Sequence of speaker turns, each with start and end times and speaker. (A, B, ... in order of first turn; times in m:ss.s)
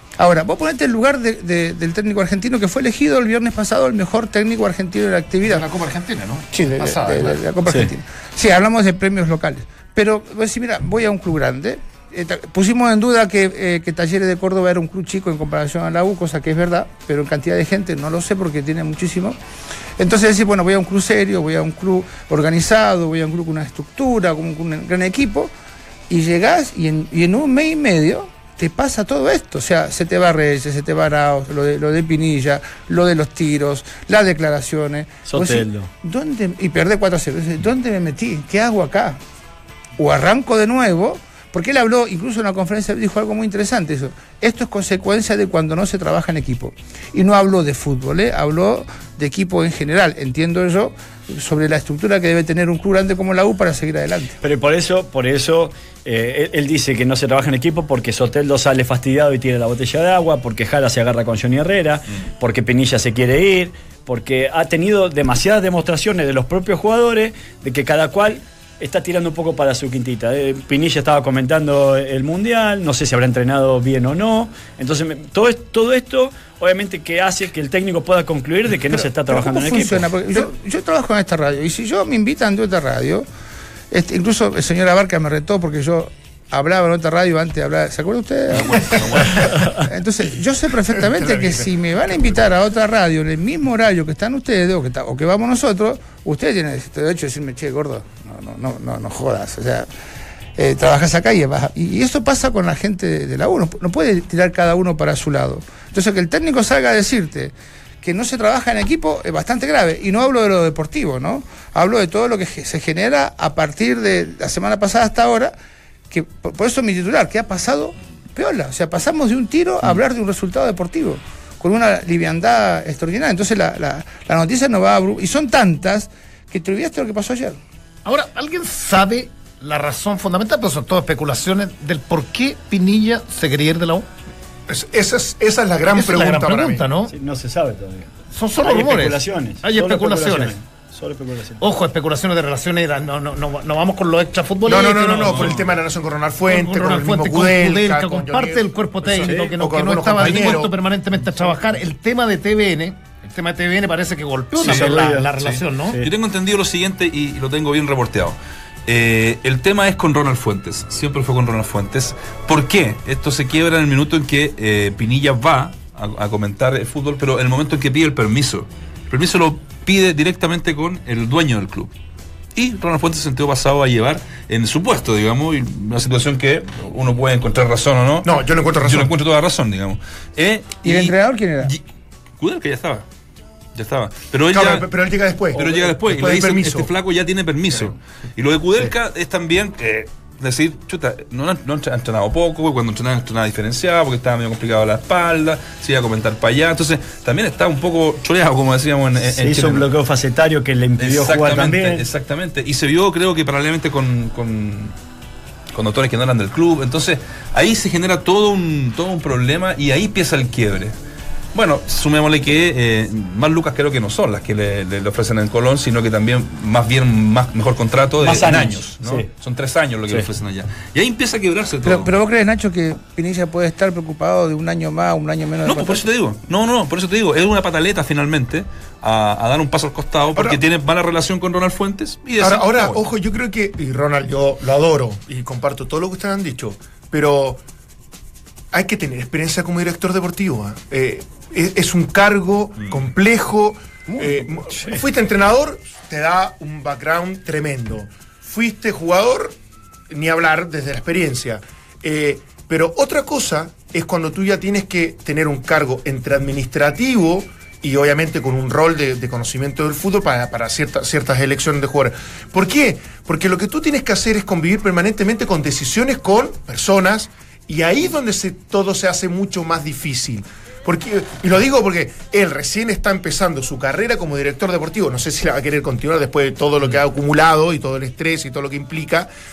0:00.2-0:05.7 A
0:05.4-0:07.4 B
0:06.6-0:19.4 A
0:20.0-0:25.5 A
0:26.1-0:39.2 A
0:35.2-0:35.9 C
0:40.0-0:54.4 A
0:54.4-1:20.1 C
1:19.3-1:23.2 A
1:23.9-1:39.9 A
1:28.5-1:29.5 D
1:29.5-1:29.8 C
1:31.1-1:31.7 E
1:40.6-1:55.5 A
1:56.1-2:07.6 A
2:08.0-2:14.0 B
2:14.7-2:16.8 E
2:15.9-2:17.1 B
2:17.1-2:21.6 C
2:18.3-2:20.6 B
2:21.6-2:25.7 B
2:24.6-2:30.8 E
2:26.4-2:36.0 B
2:29.1-2:29.5 C
2:30.2-2:30.6 D
2:34.6-2:35.3 C
2:34.6-2:51.9 D
2:35.8-2:36.1 C
2:52.6-3:01.8 D
2:58.2-2:59.1 E
3:00.8-3:01.7 A
3:02.4-3:03.0 D
3:03.7-3:04.9 D
3:04.5-3:06.9 E
3:05.5-3:19.9 D
3:19.4-3:22.0 C
3:21.0-3:24.9 D
3:25.7-3:30.9 D
3:31.5-3:42.1 D
3:38.2-3:39.3 C
3:41.8-3:46.1 A
3:45.6-3:53.0 D
3:52.4-3:57.6 E
3:58.7-4:09.6 E
4:10.1-4:39.3 E